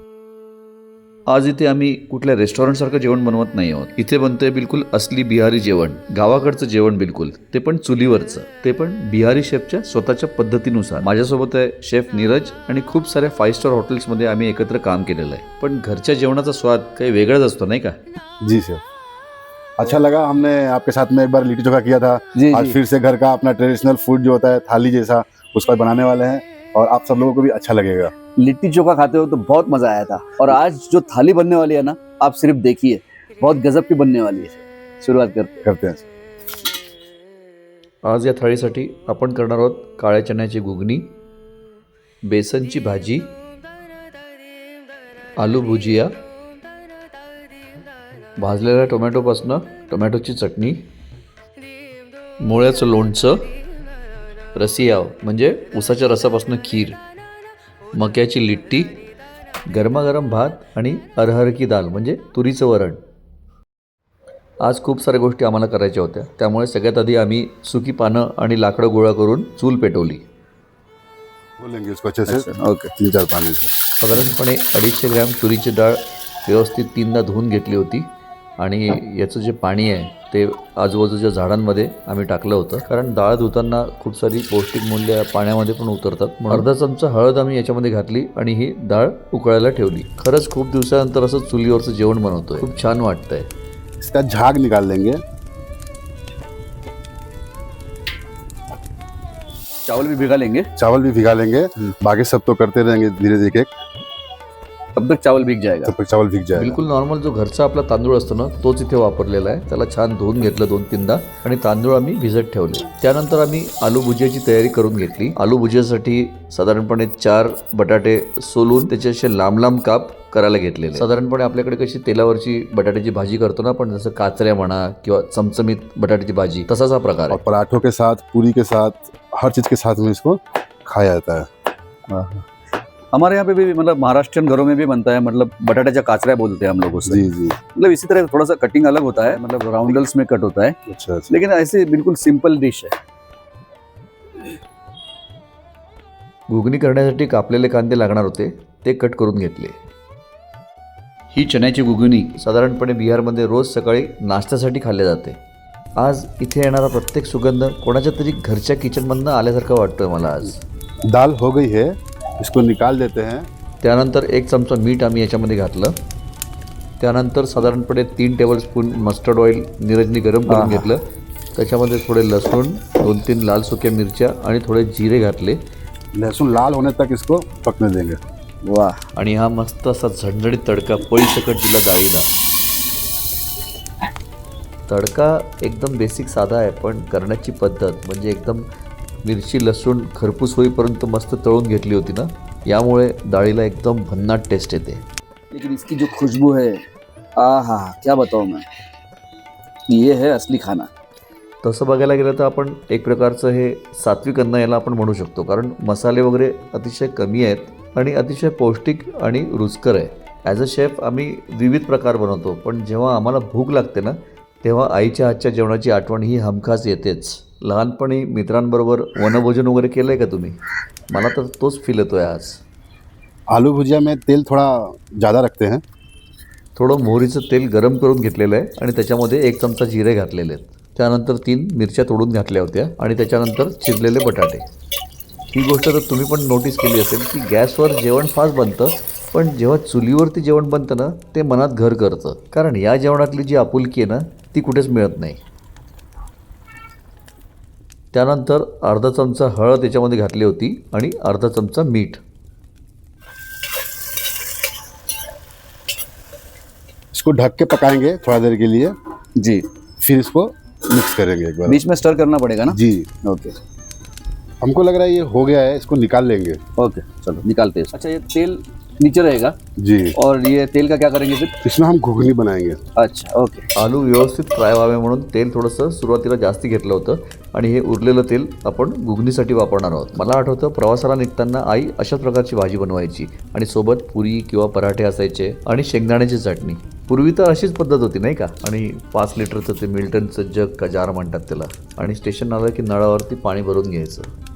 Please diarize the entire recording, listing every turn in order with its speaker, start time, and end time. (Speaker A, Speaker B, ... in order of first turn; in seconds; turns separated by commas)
Speaker A: 1.3-18.0, Speaker B: 18.4-18.8, Speaker B: 19.8-28.1, Speaker C: 22.4-22.8, Speaker C: 28.4-35.6, Speaker B: 35.6-36.0, Speaker A: 38.0-41.1, Speaker A: 42.3-43.3, Speaker A: 45.4-46.1, Speaker A: 48.4-50.8, Speaker A: 52.4-53.4, Speaker A: 54.5-57.0, Speaker A: 58.0-59.0, Speaker A: 59.7-63.0, Speaker A: 64.6-70.2, Speaker B: 71.6-73.8, Speaker C: 72.3-72.9, Speaker A: 74.0-78.1, Speaker A: 78.6-93.5, Speaker B: 94.0-95.2, Speaker C: 99.9-100.7, Speaker B: 100.8-103.7, Speaker C: 105.0-105.9, Speaker B: 105.8-106.8, Speaker A: 106.6-127.4, Speaker B: 127.3-131.5, Speaker C: 132.1-132.5, Speaker C: 133.1-140.8, Speaker B: 137.0-137.6, Speaker B: 140.9-141.3, Speaker C: 141.3-143.0, Speaker A: 146.5-149.8, Speaker A: 151.4-155.4, Speaker A: 156.0-160.6, Speaker B: 161.1-163.5, Speaker A: 163.8-165.9, Speaker A: 167.0-171.0, Speaker C: 170.5-170.9, Speaker A: 171.6-175.6, Speaker B: 176.2-178.2, Speaker C: 178.7-179.0, Speaker A: 179.2-182.3, Speaker A: 184.9-188.7, Speaker A: 189.2-195.1, Speaker C: 195.5-196.8, Speaker C: 197.4-198.7, Speaker C: 199.9-200.9, Speaker A: 201.6-220.6, Speaker A: 221.1-222.6, Speaker B: 223.5-225.8, Speaker A: 226.8-234.6, Speaker A: 235.5-245.4, Speaker A: 248.1-252.2, Speaker B: 257.1-258.9, Speaker C: 259.4-259.6, Speaker B: 260.0-261.8, Speaker C: 261.7-263.6, Speaker B: 262.7-263.1, Speaker B: 264.6-266.6, Speaker C: 266.8-269.6, Speaker B: 269.8-270.2, Speaker C: 270.2-271.6, Speaker B: 271.6-272.8, Speaker C: 273.0-273.7, Speaker A: 273.8-294.3